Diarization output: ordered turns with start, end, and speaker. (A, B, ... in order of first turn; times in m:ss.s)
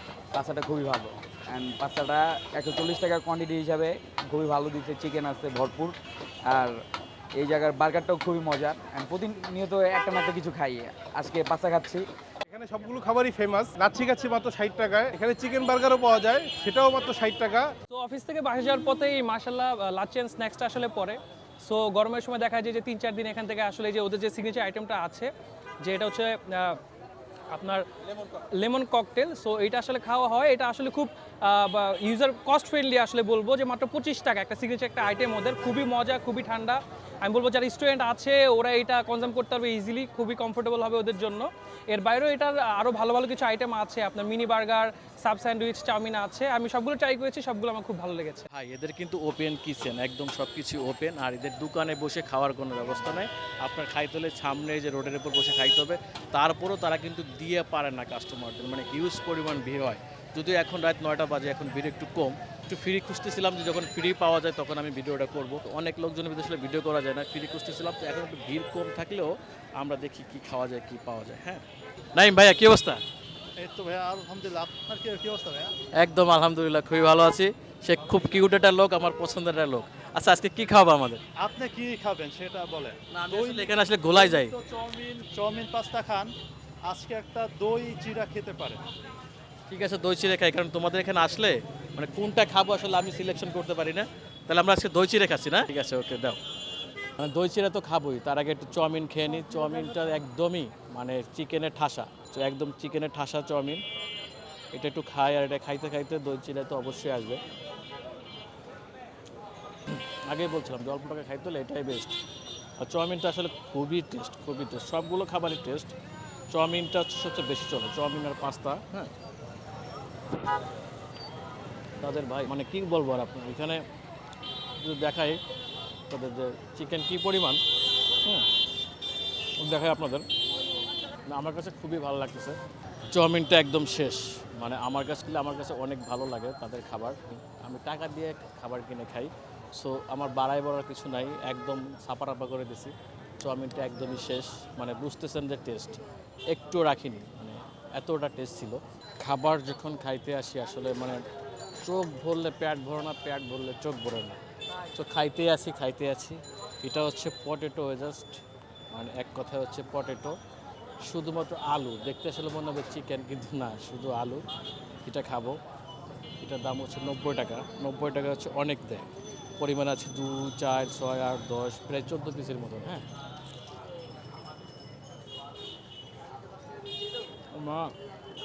0:00.3-0:06.8 A
0:07.4-0:12.1 A
0:12.5-0:17.7 B
0:17.9-0:25.3 C
0:25.8-0:26.8 C
0:27.5-0:27.9 C
0:28.5-0:48.5 C
0:48.5-1:13.0 D
1:13.6-1:15.7 E
1:16.0-1:21.2 D
1:21.4-1:26.3 E
1:23.1-1:24.5 D
1:26.9-1:28.8 E
1:29.7-1:36.4 D
1:37.2-1:43.8 D
1:44.7-1:47.4 D
1:49.9-1:52.2 D
1:52.8-1:56.0 D
1:56.5-1:59.1 D
2:02.0-2:03.8 D
2:04.8-2:05.4 D
2:06.1-2:07.6 D
2:09.6-2:10.3 D
2:11.3-2:12.6 D
2:13.1-2:31.2 D
2:31.8-2:34.4 D
2:35.0-2:38.4 D
2:38.9-2:40.4 D
2:41.0-2:44.4 D
2:45.0-2:45.6 D
2:46.4-2:53.1 D
2:57.5-2:57.9 D